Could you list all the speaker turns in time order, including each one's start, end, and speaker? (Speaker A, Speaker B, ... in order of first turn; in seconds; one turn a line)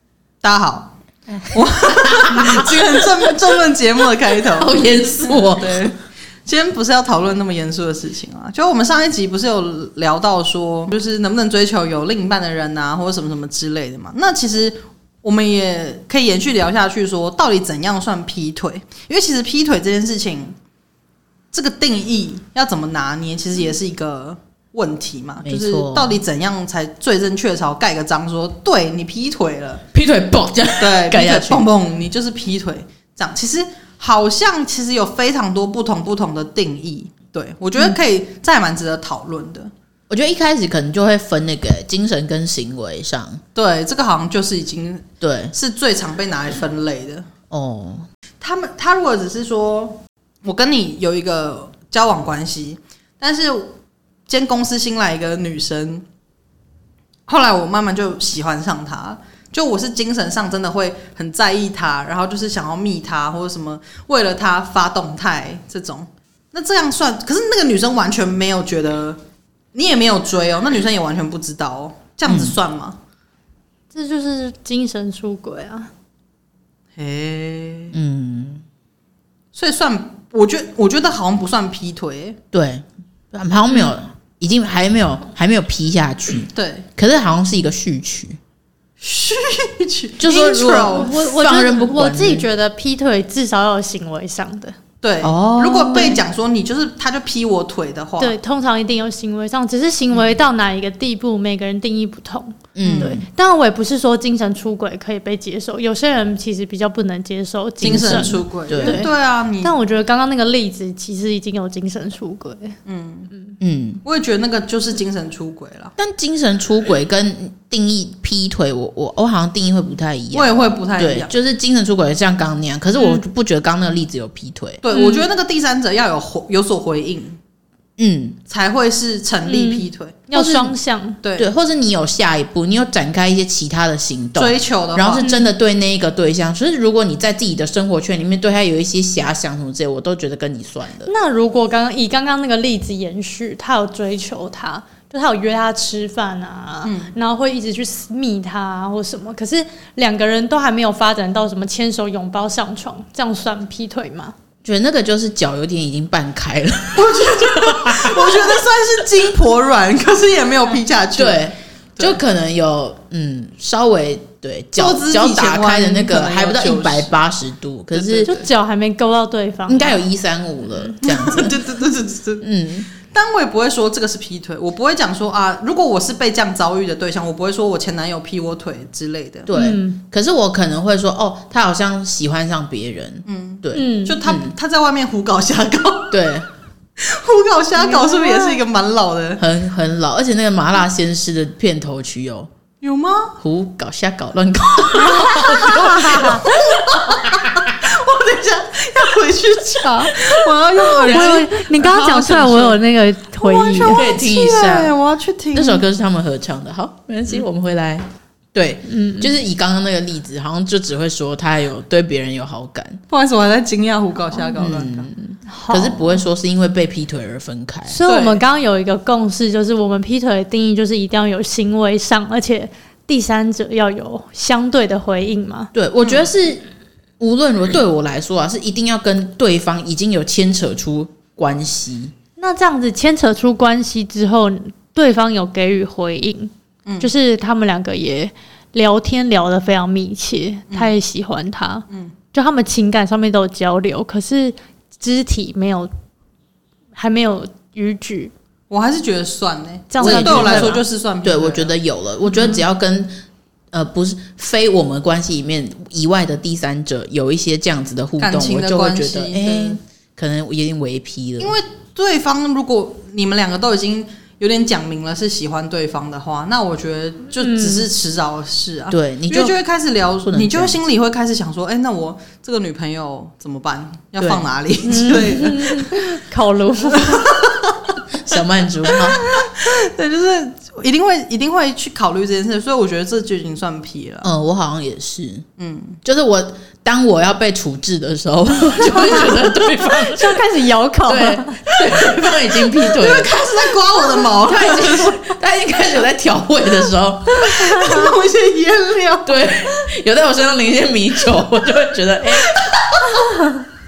Speaker A: 0.4-20.6
Speaker B: 1.9-3.0
Speaker B: 4.4-5.9
Speaker A: 21.5-29.9
Speaker B: 25.4-26.2
Speaker B: 29.9-31.6
Speaker A: 30.8-39.7
Speaker B: 40.1-43.4
Speaker A: 43.5-47.3
Speaker B: 45.2-45.5
Speaker B: 47.5-48.1
Speaker A: 48.4-53.8
Speaker A: 54.3-56.0
Speaker A: 57.3-69.2
Speaker A: 69.7-73.0
Speaker B: 72.3-72.6
Speaker C: 73.9-75.9
Speaker A: 77.0-77.9
Speaker B: 77.9-78.6
Speaker A: 79.5-82.4
Speaker B: 82.5-88.4
Speaker A: 86.5-86.9
Speaker A: 89.0-91.1
Speaker B: 90.2-92.5
Speaker C: 90.9-94.8
Speaker A: 95.0-98.4
Speaker B: 95.2-96.2
Speaker C: 95.5-96.2
Speaker C: 98.2-112.8
Speaker B: 102.8-103.2
Speaker A: 102.8-103.2
Speaker A: 107.8-109.7
Speaker B: 107.8-109.1
Speaker A: 112.9-113.3
Speaker B: 113.6-114.0
Speaker A: 114.0-115.9
Speaker B: 116.0-124.8
Speaker A: 120.3-121.3
Speaker C: 123.0-123.2
Speaker A: 124.8-127.4
Speaker C: 124.9-125.3
Speaker B: 128.0-128.4
Speaker A: 128.5-130.2
Speaker C: 129.5-131.2
Speaker B: 130.3-130.8
Speaker A: 131.2-131.5
Speaker B: 131.4-141.1
Speaker A: 134.4-135.3
Speaker C: 141.1-154.3
Speaker A: 146.8-147.1
Speaker B: 154.6-158.6
Speaker A: 156.9-162.2
Speaker B: 161.2-168.3
Speaker A: 164.8-167.1
Speaker A: 167.9-168.5
Speaker C: 168.2-170.1
Speaker B: 169.7-171.6
Speaker A: 171.0-179.5
Speaker B: 172.4-172.9
Speaker B: 179.5-184.5
Speaker C: 179.5-180.0
Speaker A: 183.3-186.3
Speaker C: 183.7-184.2
Speaker B: 186.1-186.5
Speaker A: 187.0-189.4
Speaker C: 187.8-188.6
Speaker B: 189.4-192.5
Speaker A: 192.8-193.4
Speaker B: 193.4-197.8
Speaker C: 195.0-196.5
Speaker A: 195.1-202.8
Speaker C: 199.8-200.2
Speaker B: 201.0-201.4
Speaker C: 201.1-204.1
Speaker A: 203.4-205.8
Speaker B: 203.8-204.9
Speaker B: 205.5-213.0
Speaker C: 208.8-209.3
Speaker A: 213.1-215.1
Speaker B: 214.6-218.0
Speaker C: 215.5-216.2
Speaker C: 217.9-225.7
Speaker A: 218.1-218.4
Speaker B: 225.7-226.7
Speaker A: 226.0-226.3
Speaker B: 227.2-232.1
Speaker C: 232.4-245.9
Speaker A: 236.9-237.1
Speaker C: 247.0-248.3
Speaker A: 248.7-251.8
Speaker C: 249.9-250.8
Speaker B: 250.0-253.1
Speaker A: 252.3-252.6
Speaker B: 253.7-261.6
Speaker A: 258.2-259.8
Speaker A: 261.4-276.1
Speaker C: 267.4-267.9
Speaker B: 268.9-269.6
Speaker B: 270.2-270.8
Speaker B: 274.2-274.4
Speaker C: 274.8-277.3
Speaker A: 276.9-284.3
Speaker B: 278.2-279.2
Speaker B: 284.2-285.5
Speaker A: 285.6-286.0
Speaker B: 286.0-290.4
Speaker C: 289.1-291.7
Speaker B: 291.1-293.3
Speaker A: 292.8-295.3
Speaker B: 294.4-298.1
Speaker A: 297.4-299.4
Speaker B: 299.2-302.6
Speaker A: 302.4-303.1
Speaker C: 303.1-303.6